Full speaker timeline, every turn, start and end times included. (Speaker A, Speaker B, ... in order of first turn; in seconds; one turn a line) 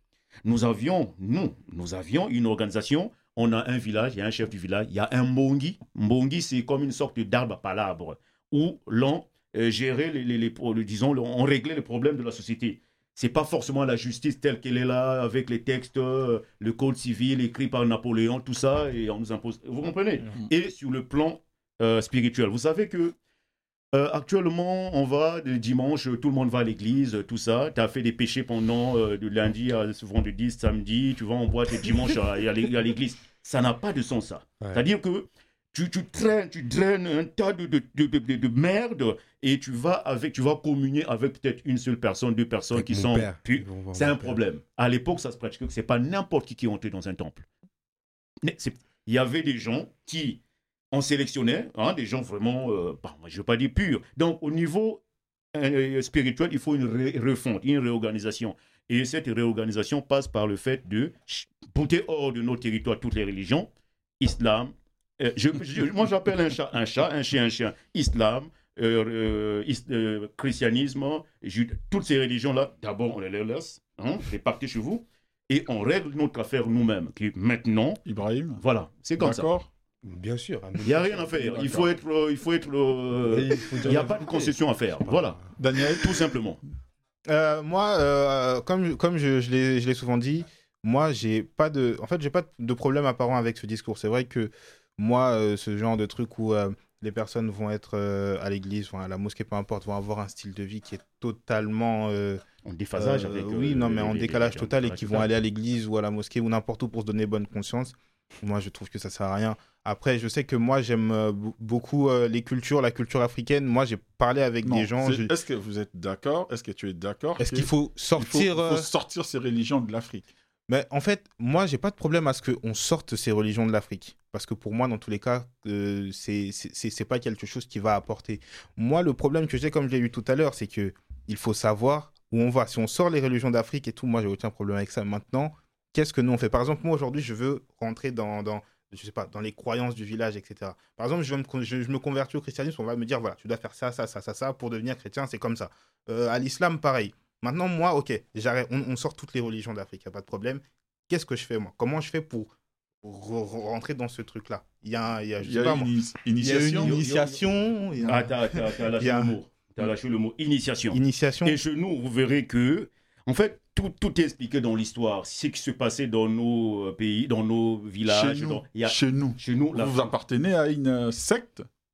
Speaker A: 0.5-23.1
Speaker A: 23.9-47.5
Speaker B: 42.7-44.4
Speaker A: 48.4-50.4
Speaker A: 50.9-55.0
Speaker A: 55.5-78.0
Speaker C: 78.0-78.6
Speaker A: 78.6-79.5
Speaker C: 79.2-79.7
Speaker B: 80.0-81.7
Speaker A: 80.8-86.6
Speaker C: 81.5-81.9
Speaker B: 83.3-85.4
Speaker C: 85.5-86.2
Speaker D: 87.3-102.4
Speaker A: 102.7-105.3
Speaker D: 103.0-115.3
Speaker C: 114.6-120.3
Speaker D: 117.4-118.9
Speaker D: 120.7-152.5
Speaker D: 153.0-159.4
Speaker C: 155.4-157.0
Speaker A: 156.8-157.5
Speaker A: 158.0-170.1
Speaker D: 160.9-161.6
Speaker C: 168.1-171.7